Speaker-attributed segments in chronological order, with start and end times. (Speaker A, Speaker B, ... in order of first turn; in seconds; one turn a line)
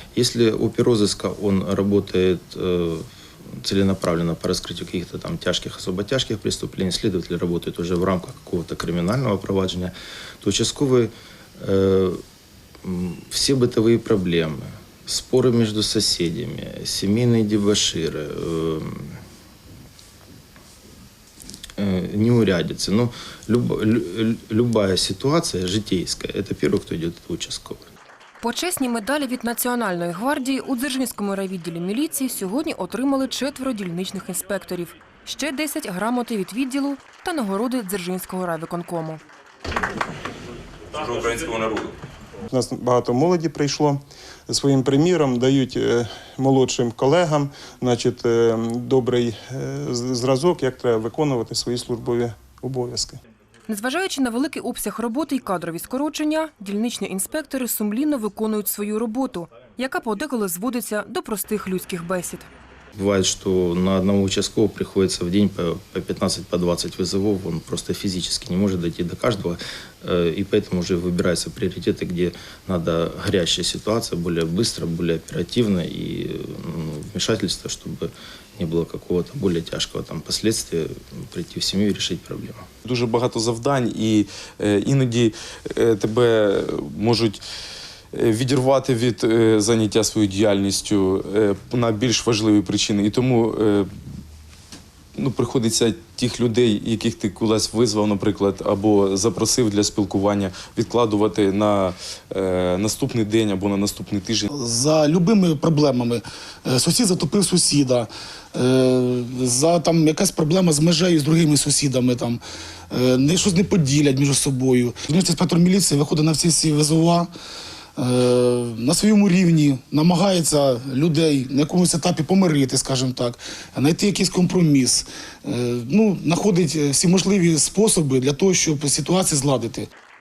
Speaker A: 0.1-3.1
Speaker A: 3.6-12.2
Speaker A: 12.8-19.2
Speaker A: 21.8-27.9
Speaker B: 28.4-39.2
Speaker C: 41.0-41.9
Speaker D: 42.5-53.2
Speaker B: 53.7-62.5
Speaker A: 62.9-82.7
Speaker C: 82.8-87.4
Speaker C: 88.1-93.9
Speaker C: 95.2-104.5
Speaker E: 104.5-117.3
Speaker E: 118.0-129.9